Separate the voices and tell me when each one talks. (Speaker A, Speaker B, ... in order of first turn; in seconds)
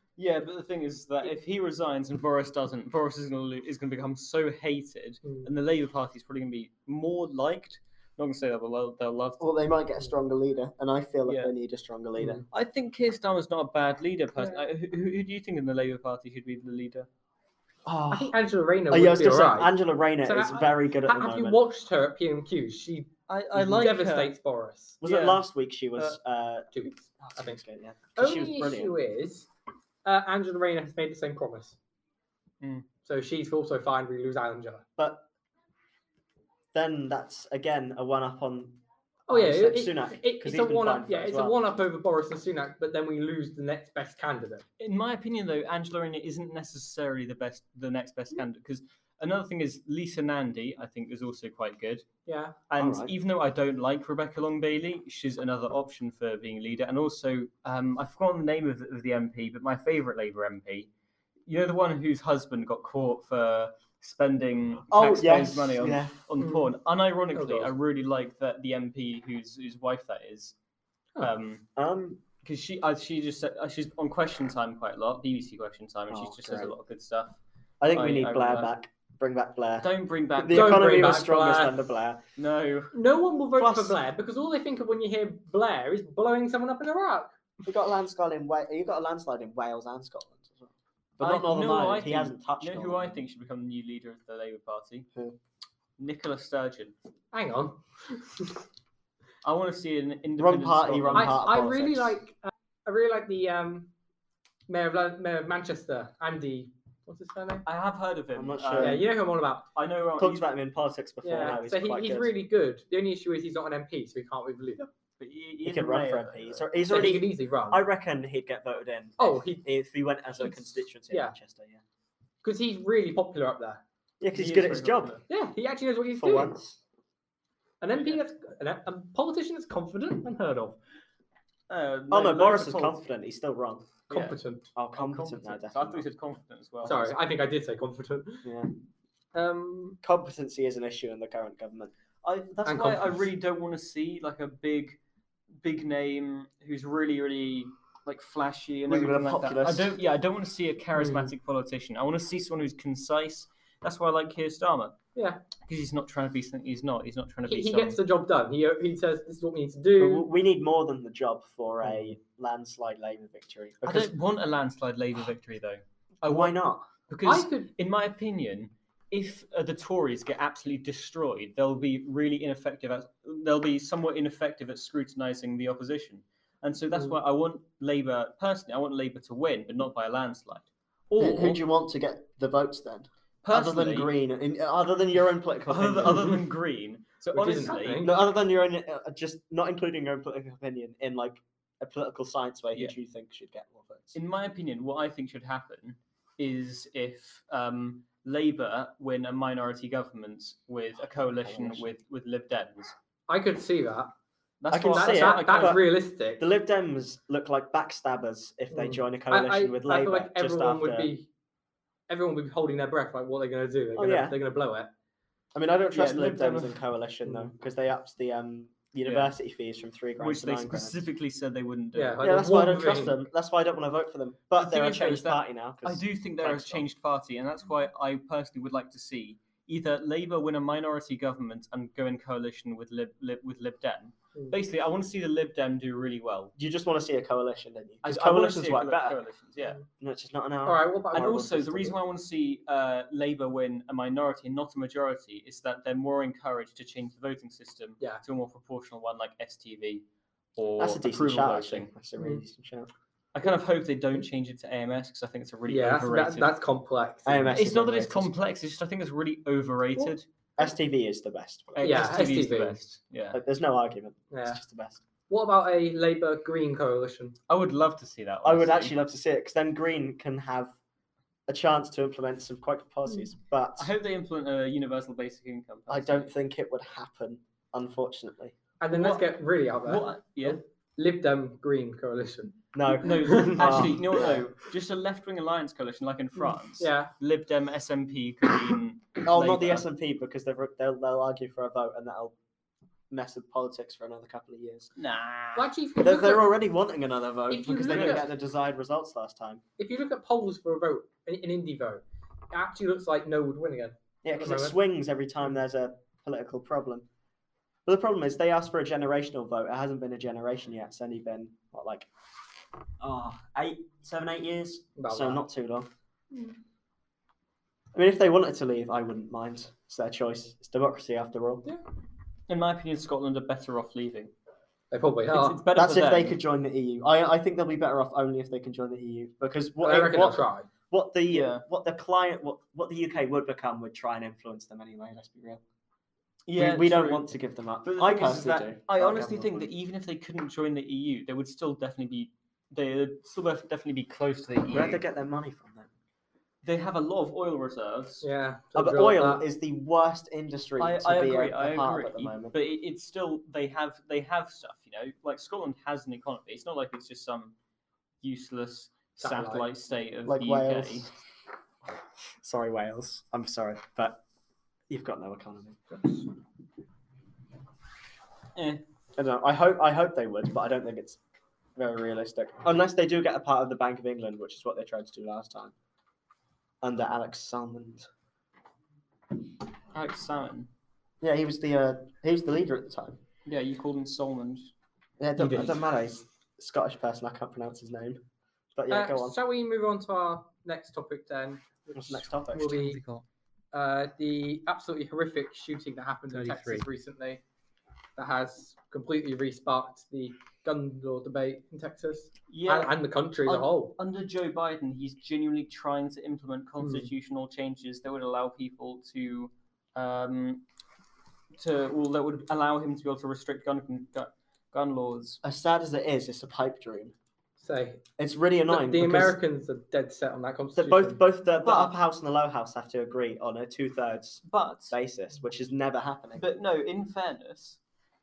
Speaker A: 0.2-9.5, 11.3-11.5, 12.5-17.1, 23.3-24.3, 25.0-26.2, 32.6-32.9, 44.8-52.0, 52.7-60.9, 61.5-70.5, 71.2-71.7, 72.4-77.4, 77.9-78.7, 79.8-81.0, 82.4-82.9, 91.2-95.1, 96.0-96.9, 99.4-101.7, 107.7-109.1, 109.8-110.4, 115.2-116.7, 124.3-125.2, 131.7-133.0, 134.1-134.4, 135.0-137.0, 142.2-145.0, 145.6-154.9, 155.7-158.0, 163.8-166.6, 167.1-181.6, 183.4-184.1, 185.7-188.1, 194.2-202.9, 204.6-205.8, 215.9-216.8, 219.1-219.3, 220.2-222.2, 224.6-236.5, 238.0-239.8, 241.1-250.0, 250.6-251.9, 253.3-256.5, 257.5-260.2, 261.8-263.4, 267.5-268.9, 273.8-276.3, 278.9-280.6, 283.0-289.8, 295.0-295.7, 297.8-298.2, 322.5-324.3, 325.3-326.4, 331.3-331.6, 336.5-337.2, 337.8-345.0, 346.6-348.2, 350.8-357.5, 358.2-361.1, 368.6-368.8, 379.9-380.7, 383.5-384.7, 392.6-393.2, 396.3-396.9, 402.5-410.6, 411.6-415.4, 421.6-421.9, 424.4-425.0, 426.4-427.8
Speaker B: 9.4-12.4, 17.9-18.3, 18.9-21.6, 25.0-29.0, 35.0-35.3, 36.7-41.6, 52.8-53.1, 64.9-66.2, 71.8-72.2, 76.1-76.7, 77.8-82.2, 83.6-84.0, 87.7-93.2, 100.4-102.2, 108.3-109.0, 110.2-112.3, 115.6-121.8, 124.2-125.2, 126.2-126.8, 132.1-133.9, 134.8-136.1, 136.8-137.2, 138.4-138.7, 140.0-141.9, 148.9-149.9, 160.0-164.1, 166.2-166.9, 181.2-186.4, 188.0-194.2, 201.2-201.9, 204.7-205.9, 206.4-211.1, 213.9-214.3, 215.5-221.0, 222.2-226.8, 236.6-239.2, 240.0-242.0, 250.8-252.9, 257.3-258.3, 260.6-262.1, 263.3-265.0, 268.4-270.8, 271.5-273.9, 275.9-278.6, 282.7-284.4, 289.2-292.4, 293.1-294.9, 296.0-299.6, 304.2-307.1, 307.9-312.1, 313.0-315.9, 317.9-321.6, 325.8-330.4, 330.9-335.6, 336.6-339.7, 344.7-345.9, 348.8-352.6, 360.3-361.1, 362.4-364.2, 364.9-366.2, 369.2-371.2, 371.8-375.7, 376.8-378.1, 381.2-383.2, 385.2-388.2, 388.8-389.4, 391.9-392.8, 415.4-417.1, 418.2-419.4, 420.8-426.4
Speaker C: 12.2-12.4, 18.1-25.0, 26.7-27.6, 28.2-29.5, 30.1-31.8, 33.0-34.8, 39.3-44.6, 52.2-52.5, 66.4-66.7, 67.3-67.7, 80.5-81.8, 82.9-87.4, 97.3-98.5, 101.2-103.9, 104.7-107.7, 108.8-109.7, 111.2-114.9, 116.9-117.8, 119.2-119.7, 120.4-121.3, 122.4-123.8, 125.3-126.5, 127.8-130.8, 134.1-134.6, 136.8-138.5, 139.3-140.0, 142.7-143.2, 150.9-151.3, 155.2-155.4, 157.5-160.3, 167.2-167.7, 187.3-188.1, 203.3-204.1, 204.9-206.4, 208.7-211.3, 212.1-214.9, 217.2-217.5, 221.9-223.2, 240.7-241.5, 255.7-257.6, 260.0-260.7, 261.8-262.8, 264.3-264.6, 265.3-267.4, 278.8-282.6, 283.3-283.9, 286.7-287.1, 295.6-296.5, 297.5-298.3, 299.8-304.8, 315.0-315.4, 324.9-325.6, 329.8-330.7, 348.2-349.5, 359.2-359.7, 385.4-385.8, 388.9-393.0, 393.7-397.4, 398.2-404.0, 406.8-407.1, 417.6-418.0, 418.7-421.2